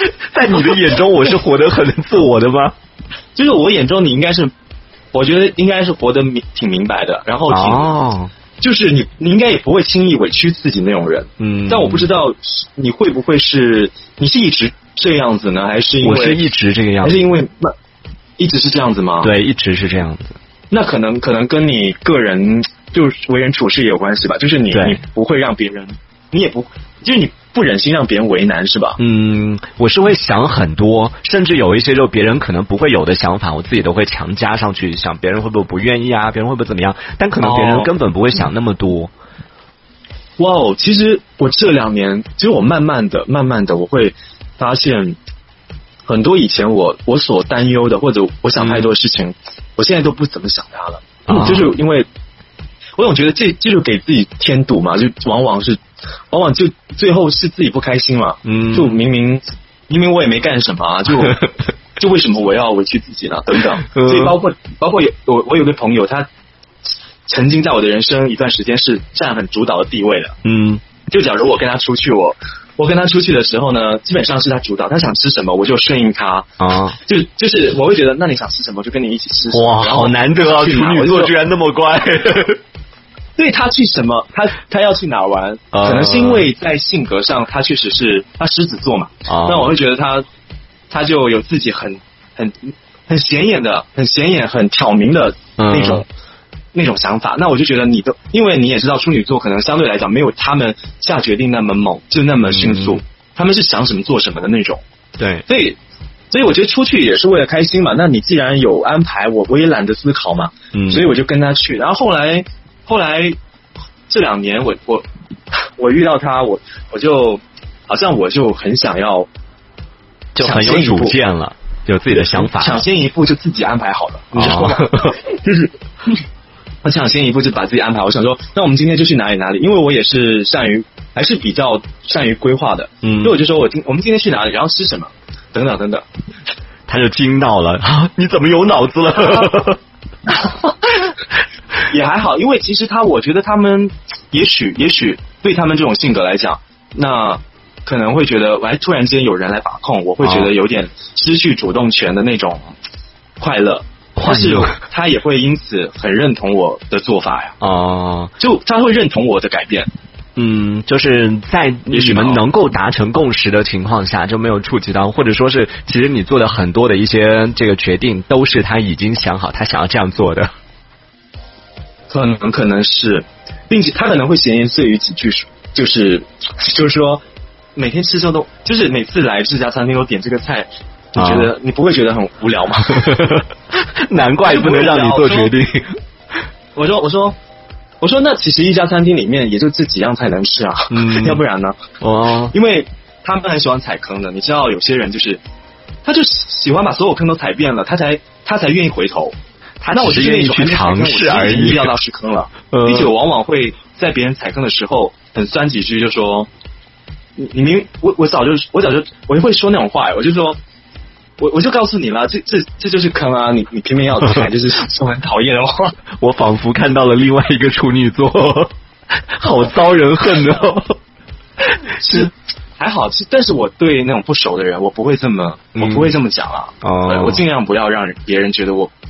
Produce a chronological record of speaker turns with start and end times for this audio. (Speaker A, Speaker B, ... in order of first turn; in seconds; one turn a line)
Speaker A: 0.2-2.7
Speaker B: 3.3-4.5
Speaker B: 5.1-7.9
Speaker A: 7.5-8.3
Speaker B: 8.6-16.4
Speaker A: 11.4-12.1
Speaker A: 16.0-17.2
Speaker B: 17.0-17.7
Speaker B: 18.4-19.3
Speaker A: 19.2-20.3
Speaker B: 20.7-29.0
Speaker A: 24.7-25.0
Speaker A: 29.0-39.1
Speaker B: 37.4-37.9
Speaker B: 40.4-45.2
Speaker B: 46.0-52.1
Speaker A: 48.6-48.9
Speaker A: 51.3-51.7
Speaker B: 53.0-61.4
Speaker A: 58.4-59.0
Speaker B: 62.0-66.3
Speaker A: 63.9-64.3
Speaker B: 67.2-70.4
Speaker A: 70.4-70.8
Speaker B: 71.1-76.5
Speaker A: 76.6-77.0
Speaker B: 77.0-81.3
Speaker A: 79.5-82.6
Speaker B: 83.4-90.2
Speaker A: 85.7-86.5
Speaker A: 89.3-89.7
Speaker B: 90.9-96.0
Speaker A: 95.6-96.0
Speaker B: 96.7-104.8
Speaker A: 102.4-103.0
Speaker A: 105.2-105.4
Speaker B: 105.5-105.8
Speaker B: 106.3-113.3
Speaker A: 110.7-111.1
Speaker B: 114.1-119.3
Speaker A: 120.3-122.8
Speaker B: 120.4-121.2
Speaker B: 122.1-125.7
Speaker A: 124.3-125.2
Speaker B: 126.8-136.0
Speaker A: 133.0-133.3
Speaker A: 136.9-139.8
Speaker B: 140.4-140.7
Speaker B: 141.8-152.7
Speaker A: 150.2-150.5
Speaker B: 153.4-157.6
Speaker A: 154.2-154.8
Speaker A: 157.6-158.3
Speaker B: 158.4-159.9
Speaker A: 160.3-170.5
Speaker B: 161.9-162.4
Speaker B: 172.1-177.2
Speaker B: 177.8-183.3
Speaker A: 181.2-181.5
Speaker A: 183.0-183.4
Speaker A: 184.0-185.9
Speaker B: 184.4-185.5
Speaker B: 186.7-187.3
Speaker B: 188.0-191.8
Speaker A: 190.9-191.4
Speaker A: 192.0-192.5
Speaker B: 192.5-195.4
Speaker B: 196.0-199.3
Speaker A: 199.8-201.9
Speaker B: 199.9-206.5
Speaker A: 202.7-203.1
Speaker B: 207.4-210.6
Speaker B: 211.4-215.9
Speaker A: 216.2-218.7
Speaker A: 219.4-220.9
Speaker B: 222.0-228.9
Speaker A: 222.0-222.3
Speaker A: 225.8-226.1
Speaker A: 226.8-227.4